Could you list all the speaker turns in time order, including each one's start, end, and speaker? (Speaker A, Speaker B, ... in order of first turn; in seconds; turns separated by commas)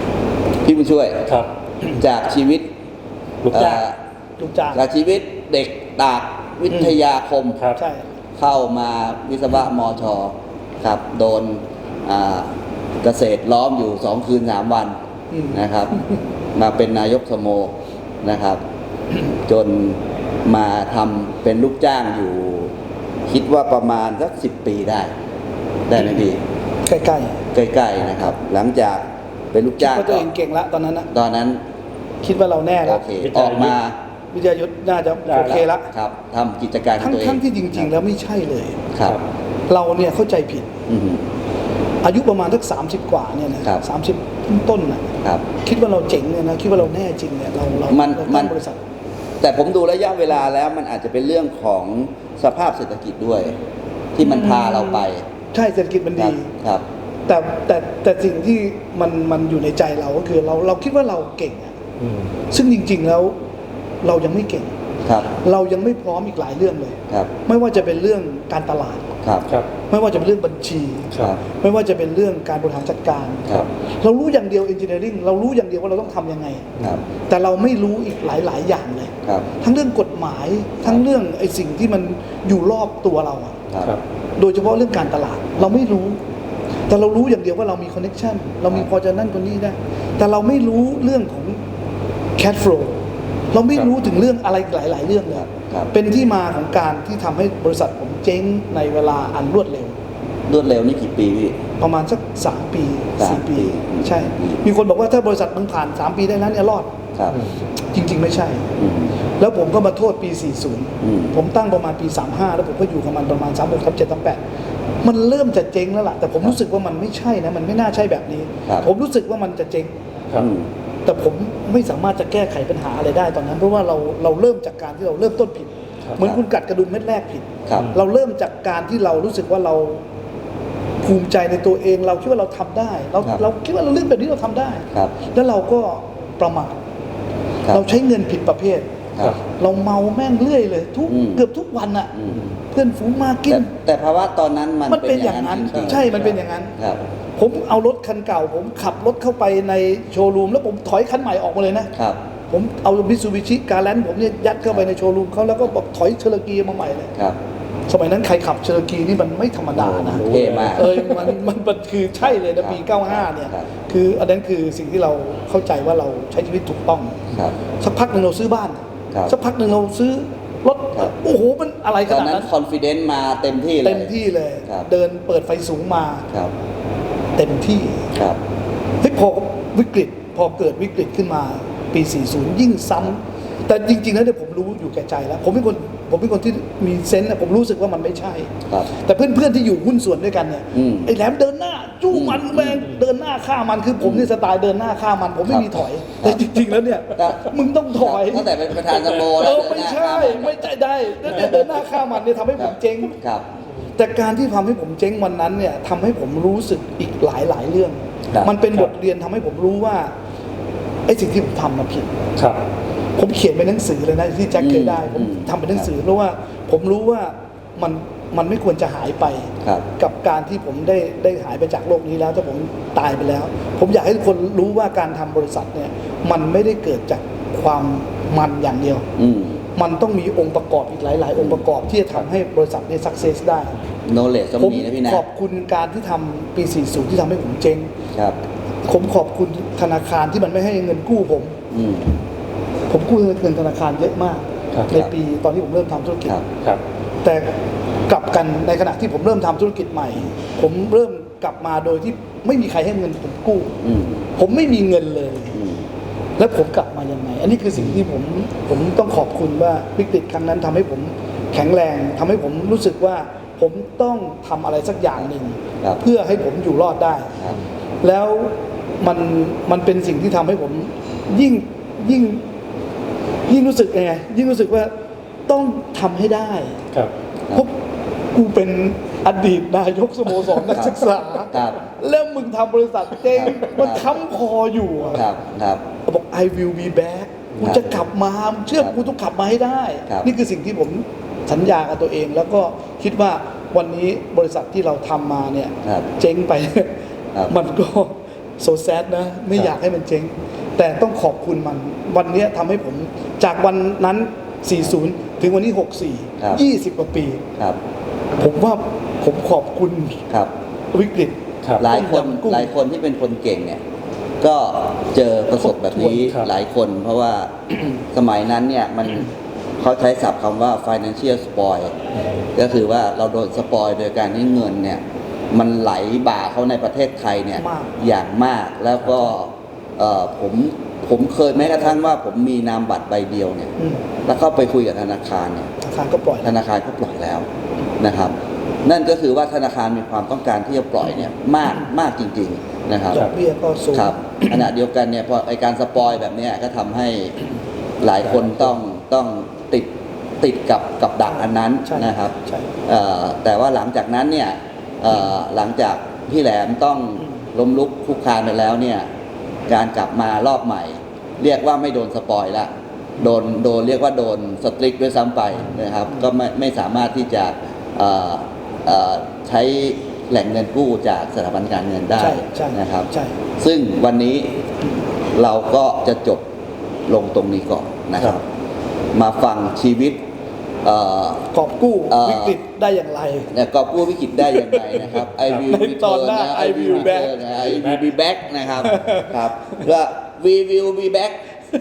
Speaker A: 0.6-1.3, Speaker A: 1.9-2.7, Speaker B: 3.4-3.8, Speaker A: 3.5-4.0, Speaker C: 4.4-4.8, Speaker A: 4.7-7.7, Speaker C: 7.8-8.0, Speaker A: 8.4-14.9, Speaker C: 15.3-16.2, Speaker A: 15.5-18.6, Speaker A: 19.3-22.7, Speaker A: 23.3-25.1, Speaker A: 25.9-26.4, Speaker C: 26.8-27.4, Speaker A: 27.5-30.3, Speaker C: 29.8-31.1, Speaker A: 31.1-31.6, Speaker C: 32.2-33.0, Speaker A: 32.8-34.0, Speaker B: 33.1-33.7, Speaker C: 34.3-35.9, Speaker B: 35.3-35.6, Speaker A: 35.4-37.9, Speaker C: 37.0-38.8, Speaker A: 38.9-39.2, Speaker C: 39.7-40.7, Speaker A: 40.9-41.3, Speaker C: 42.0-48.8, Speaker A: 47.9-48.5, Speaker A: 49.4-53.6, Speaker A: 54.1-55.2, Speaker C: 54.2-56.5, Speaker A: 56.1-56.8, Speaker C: 57.3-61.8, Speaker B: 62.0-62.3, Speaker C: 62.5-63.4, Speaker C: 64.0-64.7, Speaker A: 65.0-65.3, Speaker C: 65.4-69.1, Speaker A: 69.2-69.5, Speaker C: 69.9-76.7, Speaker C: 77.3-83.6, Speaker A: 83.7-84.0, Speaker C: 84.4-86.2, Speaker C: 86.9-91.6, Speaker C: 92.4-100.0, Speaker A: 95.4-95.9, Speaker A: 100.5-101.6, Speaker C: 101.8-106.9, Speaker A: 103.2-104.6, Speaker A: 107.2-107.5, Speaker B: 107.3-107.6, Speaker C: 107.8-108.7, Speaker A: 108.8-109.2, Speaker C: 109.4-114.4, Speaker A: 111.0-111.3, Speaker C: 115.0-120.0, Speaker A: 120.3-120.7, Speaker C: 121.0-130.0, Speaker C: 131.0-136.8, Speaker C: 137.7-138.9, Speaker C: 139.6-143.7, Speaker A: 141.1-141.4, Speaker A: 142.1-142.5, Speaker A: 143.5-147.0, Speaker C: 144.9-146.7, Speaker C: 147.4-151.9, Speaker A: 151.9-152.2, Speaker C: 152.5-157.1, Speaker C: 157.9-172.5, Speaker A: 159.8-161.3, Speaker B: 159.9-160.9, Speaker A: 162.2-163.7, Speaker A: 167.3-167.6, Speaker A: 172.1-174.1, Speaker C: 173.8-176.3, Speaker C: 177.3-178.1, Speaker A: 178.1-178.4, Speaker C: 179.0-203.2, Speaker A: 190.7-191.1, Speaker A: 192.1-192.9, Speaker A: 194.0-194.3, Speaker A: 195.4-196.5, Speaker A: 197.1-200.7, Speaker A: 201.2-201.9, Speaker A: 202.6-203.4, Speaker C: 203.9-210.1, Speaker C: 211.1-212.3, Speaker B: 212.3-212.6, Speaker C: 213.2-229.1, Speaker A: 214.5-215.8, Speaker A: 229.2-229.6, Speaker C: 229.7-233.8, Speaker A: 231.3-231.6, Speaker A: 234.1-235.2, Speaker C: 234.6-237.9, Speaker C: 238.8-241.6, Speaker A: 241.7-242.2, Speaker C: 242.9-246.4, Speaker C: 247.2-247.5, Speaker C: 248.1-253.8, Speaker A: 253.8-254.3, Speaker C: 254.3-255.6, Speaker A: 255.5-255.9, Speaker C: 256.4-267.4, Speaker C: 268.0-272.4, Speaker C: 273.5-274.9, Speaker C: 275.5-276.8, Speaker C: 278.3-285.2, Speaker A: 280.7-281.8, Speaker A: 283.3-284.1, Speaker A: 285.1-285.8, Speaker C: 286.1-296.9, Speaker C: 297.5-307.4, Speaker C: 308.4-310.2, Speaker C: 310.9-312.7, Speaker A: 311.8-313.8, Speaker A: 314.4-317.5, Speaker C: 315.6-316.3, Speaker A: 318.1-321.9, Speaker A: 322.5-333.7, Speaker C: 327.6-327.9, Speaker C: 331.7-331.9, Speaker C: 333.8-334.0, Speaker A: 334.2-335.7, Speaker C: 335.8-336.5, Speaker A: 336.4-337.4, Speaker A: 338.0-343.2, Speaker C: 343.1-344.7, Speaker A: 343.9-347.4, Speaker A: 348.0-352.3, Speaker C: 351.2-352.7, Speaker A: 352.9-359.1, Speaker A: 359.7-373.1, Speaker C: 372.2-373.4, Speaker A: 373.6-374.6, Speaker A: 375.3-376.4, Speaker A: 377.1-378.4, Speaker A: 379.1-380.2, Speaker A: 380.8-381.5, Speaker C: 381.5-383.5, Speaker A: 382.1-382.6, Speaker A: 383.5-391.4, Speaker C: 384.5-384.9, Speaker B: 385.4-385.6, Speaker C: 385.7-387.4, Speaker B: 386.9-388.1, Speaker C: 388.9-389.4